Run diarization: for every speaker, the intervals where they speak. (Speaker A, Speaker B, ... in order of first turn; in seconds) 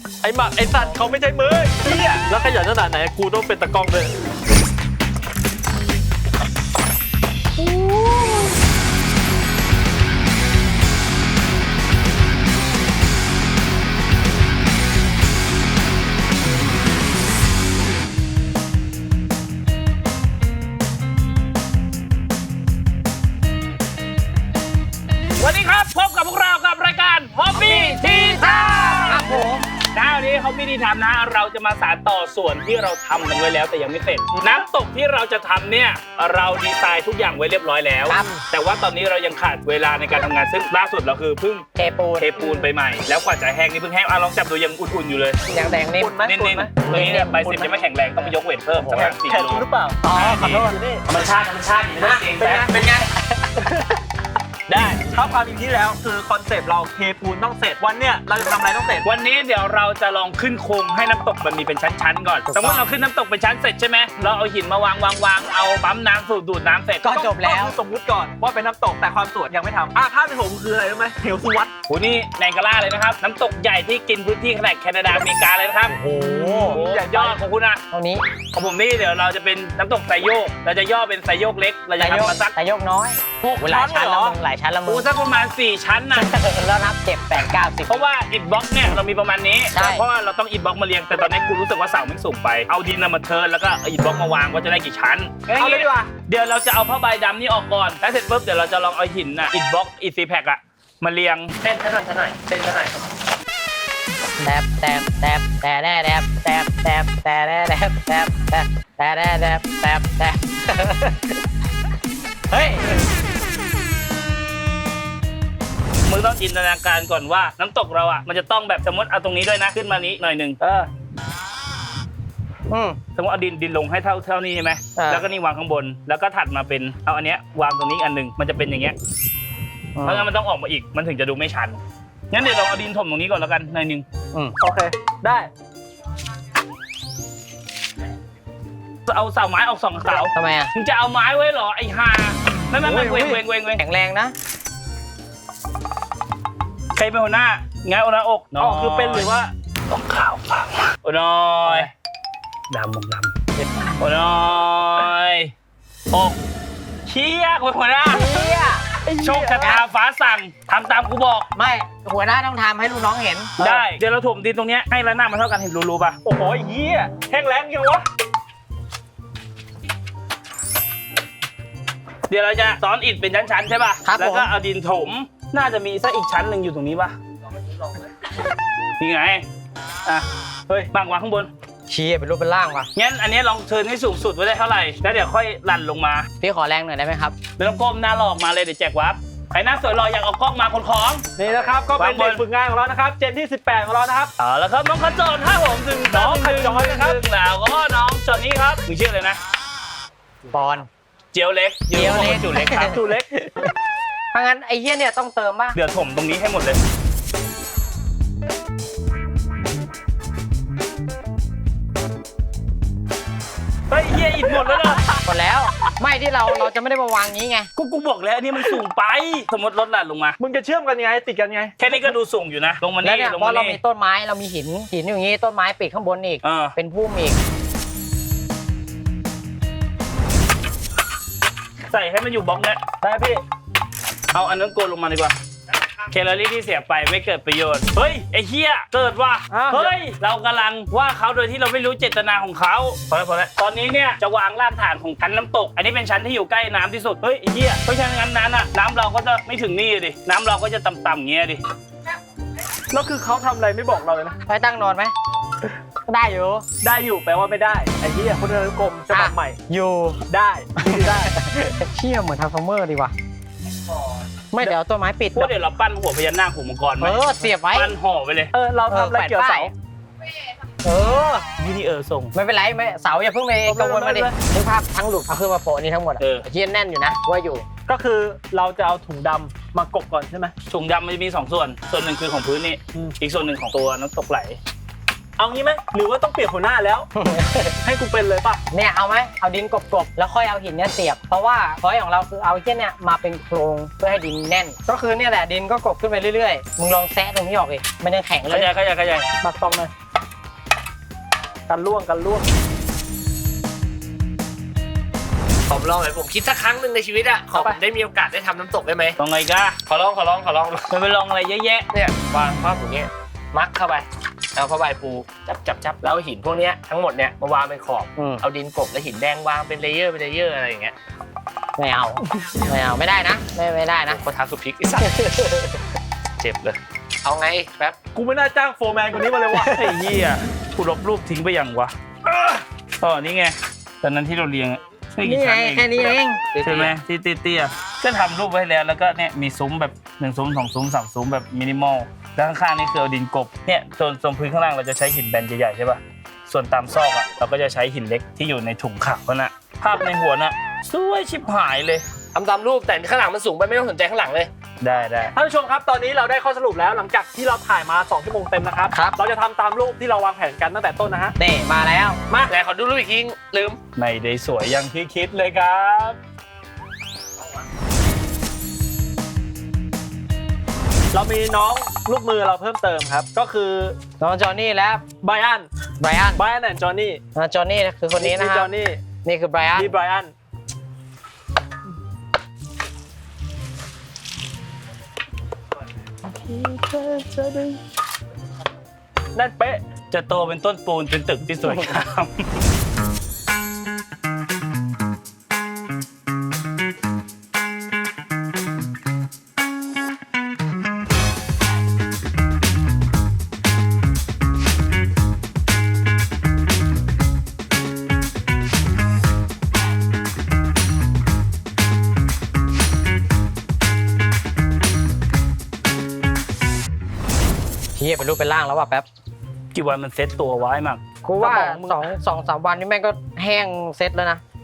Speaker A: 0.2-4.2, 34.4-34.6, 46.0-47.7, 48.7-50.0, 50.7-51.0, 52.4-52.9, 55.0-59.1, 67.1-71.7, 75.9-77.4, 83.4-84.4, 95.6-96.1, 134.6-135.5, 142.8-143.4, 148.6-149.5, 159.1-159.7, 166.2-168.1, 191.4-194.3, 196.0-197.2, 202.9-203.3, 220.4-221.8, 233.0-233.4, 239.5-239.9, 252.9-254.4, 256.8-259.6, 260.3-261.3, 268.5-269.7, 277.9-280.5, 285.4-287.1, 287.8-288.6, 299.4-299.9, 301.7-302.5, 307.5-307.8, 328.1-329.9, 355.3-361.4, 371.1-374.0, 375.2-375.7, 376.4-377.2, 378.2-379.0, 379.8-380.3, 389.4-389.8, 421.4-422.1
Speaker B: 7.6-8.5, 27.5-29.7, 38.1-38.4, 41.8-42.7, 45.5-46.1, 46.9-47.4, 50.0-50.8, 51.9-54.0, 62.5-62.9, 67.0-67.8, 76.1-76.8, 77.9-78.2, 82.0-85.1, 86.2-88.0, 89.7-90.0, 104.4-111.4, 112.5-113.0, 122.7-123.0, 125.0-125.2, 129.9-130.3, 140.3-140.7, 143.8-144.3, 158.1-158.8, 159.6-159.8, 161.6-163.7, 174.0-174.5, 181.9-182.9, 186.4-187.3, 200.5-200.9, 201.9-203.0, 204.3-205.8, 215.2-217.7, 223.0-227.4, 254.5-255.1, 256.1-256.6, 259.1-260.2, 260.8-263.1, 264.5-265.5, 267.0-267.9, 268.9-269.7, 270.8-271.5, 272.3-277.7, 287.1-287.8, 288.7-298.7, 318.2-318.4, 321.8-324.2, 325.0-325.8, 335.2-336.6, 361.4-362.2, 374.2-375.0, 376.0-376.4, 377.4-379.9, 418.0-419.1, 421.2-424.4
Speaker C: 25.4-41.7, 42.2-45.4, 46.3-52.7, 54.7-55.0, 59.0-67.1, 71.9-76.0, 76.7-77.8, 78.5-82.5, 84.9-86.4, 87.9-101.5, 116.1-120.9, 123.2-129.0, 130.0-134.1, 139.1-143.8, 146.9-149.3, 149.9-151.9, 152.7-153.3, 154.0-155.5, 156.1-156.4, 157.1-158.5, 159.2-161.5, 163.6-166.2, 172.3-177.2, 179.0-179.4, 180.9-181.5, 182.9-186.3, 187.6-191.3, 192.0-192.4, 194.4-199.4, 201.3-203.0, 205.7-206.8, 213.9-215.1, 217.8-220.4, 221.8-223.8, 226.4-226.8, 231.9-232.8, 234.3-235.4, 236.1-251.6, 265.4-268.5, 271.6-272.3, 273.7-274.3, 276.2-276.5, 280.7-284.6, 298.5-299.3, 309.2-309.8, 310.9-311.9, 329.6-352.1, 354.8-355.3, 364.0-366.2, 386.3-387.8, 390.1-392.5, 419.7-421.8
Speaker D: 101.6-103.0, 305.7-309.2, 309.9-310.9, 311.9-320.9, 324.1-325.1, 326.4-328.0, 336.6-336.9, 352.3-354.5, 362.3-363.8